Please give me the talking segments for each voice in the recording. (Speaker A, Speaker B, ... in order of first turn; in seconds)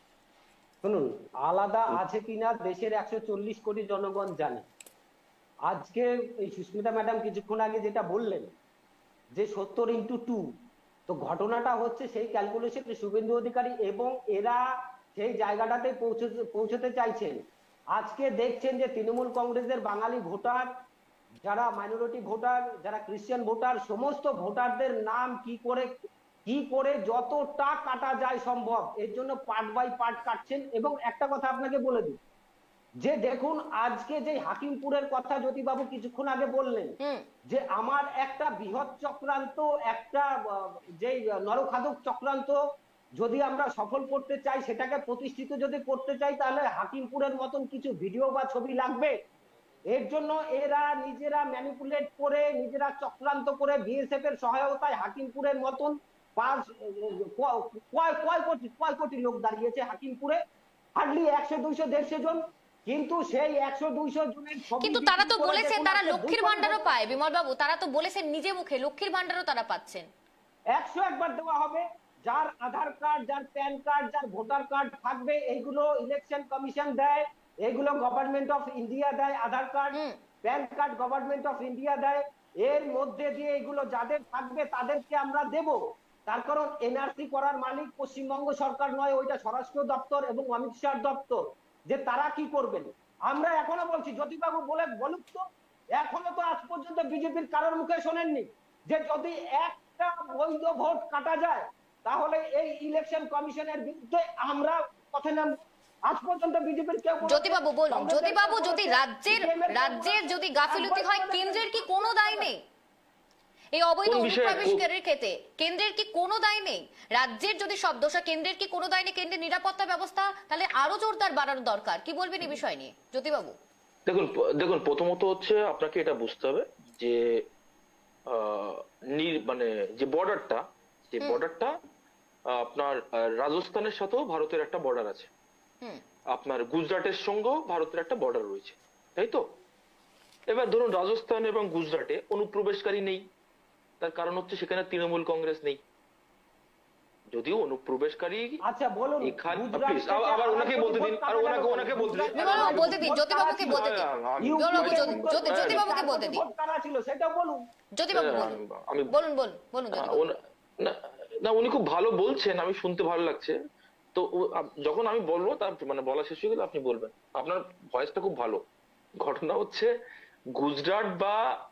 Speaker A: 0.8-4.7, 5.7-8.5, 9.3-10.4, 11.1-14.6, 15.2-17.4, 17.9-20.7, 21.4-25.9, 26.5-32.2, 33.0-37.0, 37.5-42.6, 43.2-49.1, 49.9-60.4, 61.0-67.1, 70.7-95.4, 96.0-105.6, 106.1-112.5, 148.6-153.8, 154.4-157.6
Speaker B: 64.7-70.1, 107.2-112.6, 113.7-123.5, 152.3-156.4, 158.0-158.6, 159.1-160.2
Speaker C: 114.0-114.8, 124.1-127.4, 128.3-131.8, 132.5-135.3, 136.3-139.4, 140.5-143.2, 144.0-145.8, 147.3-148.6, 149.2-153.1, 153.6-155.8, 158.1-159.1, 159.9-163.6, 164.1-168.6, 169.2-169.9, 170.6-171.4